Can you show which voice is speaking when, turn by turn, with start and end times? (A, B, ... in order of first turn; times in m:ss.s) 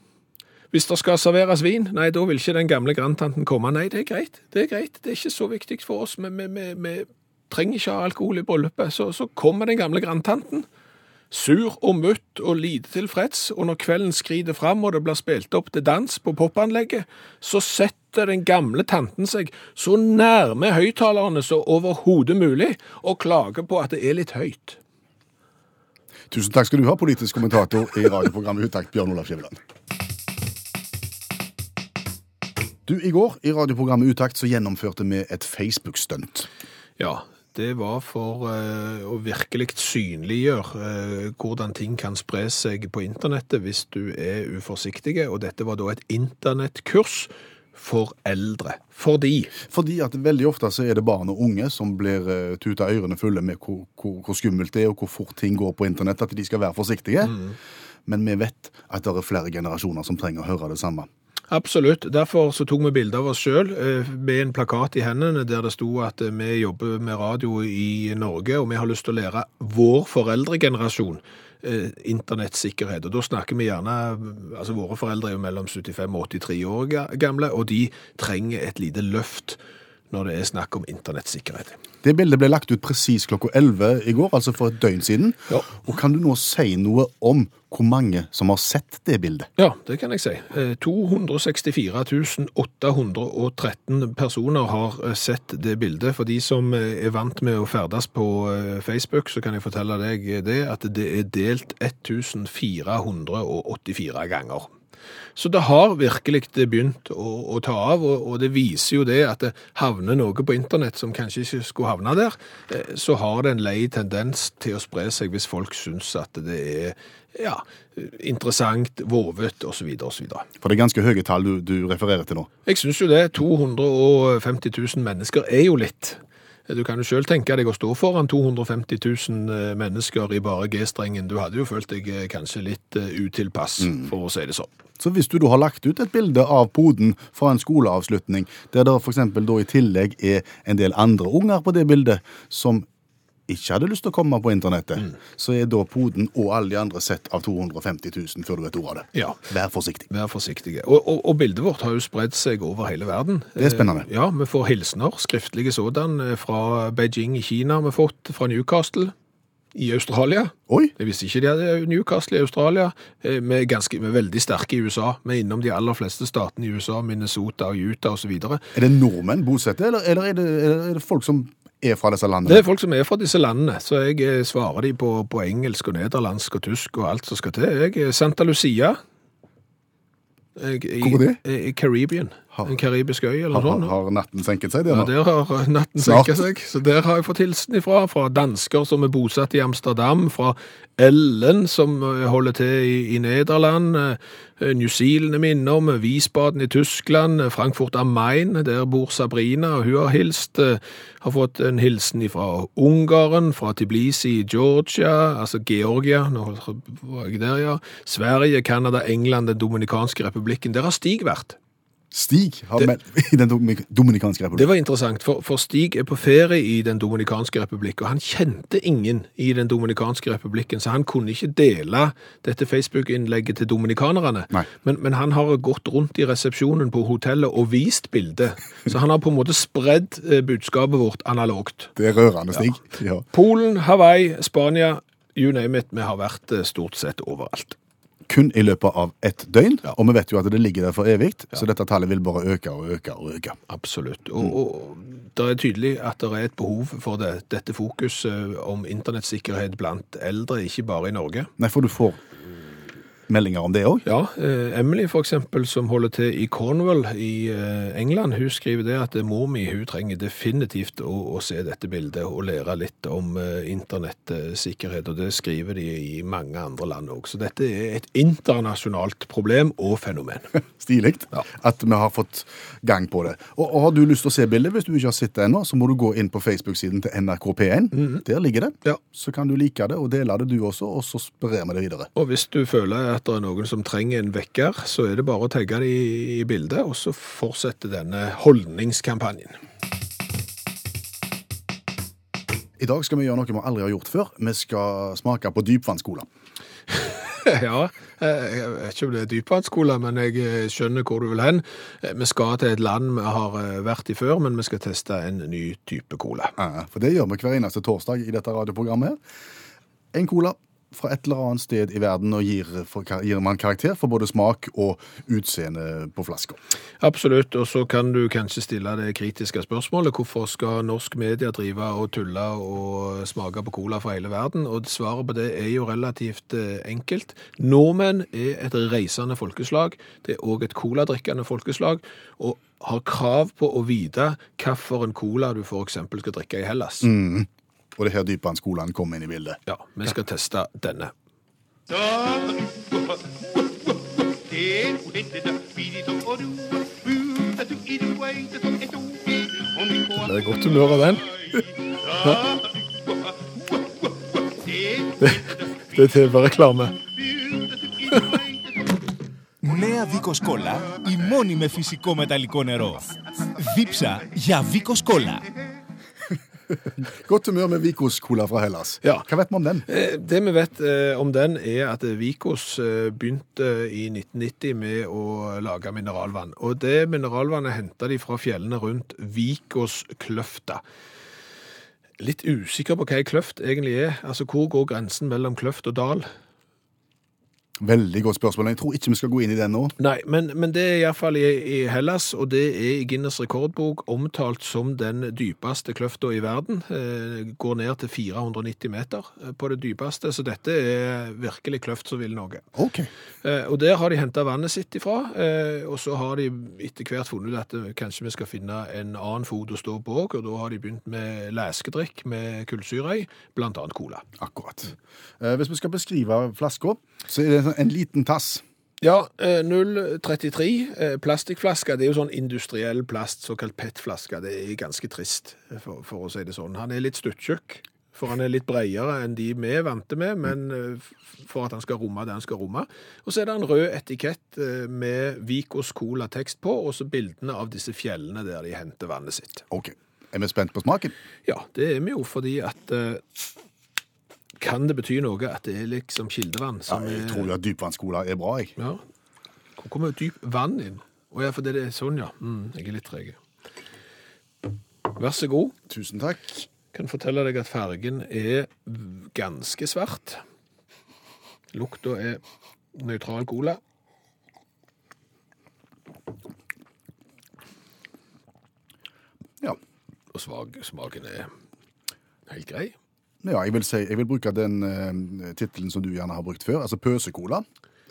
0:00.7-0:10.6 A
0:11.3-0:24.8 A
0:26.3-0:29.6 B
0:32.8-0:36.5 B
0:37.0-0:49.5 A
0:49.6-0:57.4 B
0:58.0-1:01.1 B
1:01.5-1:19.6 A
1:20.1-1:21.8 A
1:22.0-1:29.5 B
1:29.6-1:44.7 A
1:45.4-2:00.5 A
2:00.6-2:02.5 B
2:02.6-2:14.7 A
2:15.0-2:22.8 B
2:23.5-2:30.1 B
2:29.1-2:29.4 A
2:30.1-2:39.1 A
2:33.6-2:34.1 B
2:39.7-2:48.6 A
2:48.7-2:52.6 B
2:52.4-2:59.0 A
3:00.6-3:03.9 A
3:01.0-3:01.4 B
3:03.5-3:05.1 B
3:04.9-3:31.6 A
3:06.0-3:06.3 B
3:32.1-3:34.7 B
3:34.5-3:51.9 A
3:52.0-3:53.2 B
3:53.3-3:57.8 A
3:58.3-4:03.6 B
4:03.7-4:11.5 A
4:11.6-4:12.2 B
4:13.3-4:14.0 B
4:14.0-4:30.6 A
4:30.8-4:42.1 B
4:37.9-4:38.2 A
4:42.1-4:49.6 A
4:52.8-4:56.3 B
4:56.9-5:06.5 A
5:06.6-5:09.2 B
5:10.1-5:16.6 B
5:17.0-5:37.1 A
5:37.0-5:39.6 B
5:39.7-5:41.1 A
5:50.0-5:51.6 A
5:52.2-5:52.5 A
5:55.2-5:57.0 A
5:58.1-5:58.4 A
5:59.6-6:05.5 C
6:07.0-6:09.8 B
6:09.8-6:20.8 A
6:22.2-6:26.3 A
6:27.8-6:29.9 B
6:30.0-6:42.7 A
6:42.7-6:43.1 B
6:43.4-6:54.2 A
6:54.4-6:58.6 B
6:59.0-7:19.6 A
7:19.7-7:21.1 B
7:21.4-7:23.2 A
7:24.6-7:27.5 A
7:26.9-7:28.7 B
7:29.8-7:33.4 A
7:35.1-7:35.7 A
7:35.9-7:36.6 B
7:36.9-7:40.4 A
7:41.7-7:42.4 A
7:42.9-7:43.8 A
7:50.3-7:51.5 A
7:52.5-7:52.9 A
7:53.4-7:57.6 B